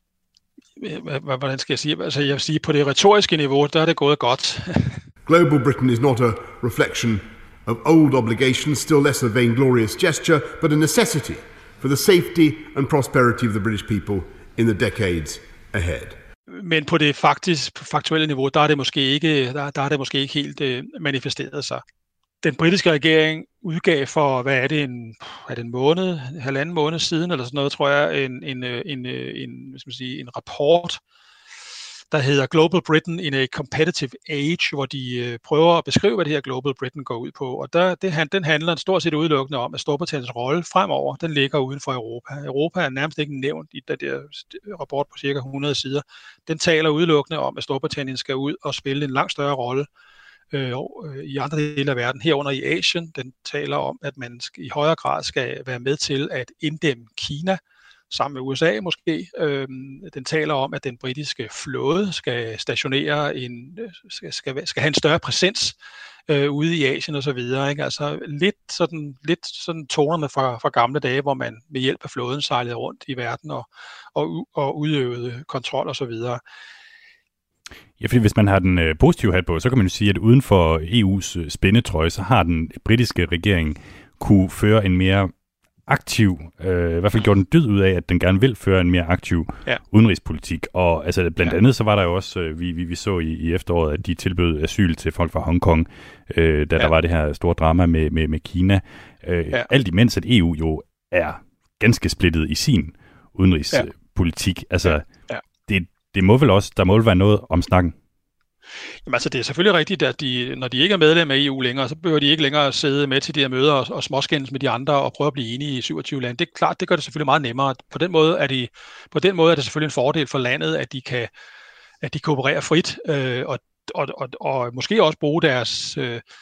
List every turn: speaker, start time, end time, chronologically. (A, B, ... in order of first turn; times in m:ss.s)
0:00.8-0:05.0 A
0:05.2-0:16.2 B
0:16.5-0:21.8 A
0:22.4-0:31.0 A
0:32.1-0:49.9 A
0:50.5-1:05.8 A
1:06.3-1:16.4 A
1:18.0-1:25.3 C
1:25.9-1:45.1 C
1:44.8-1:45.4 A
1:45.7-1:47.9 C
1:49.0-2:01.3 A
2:02.0-2:06.2 A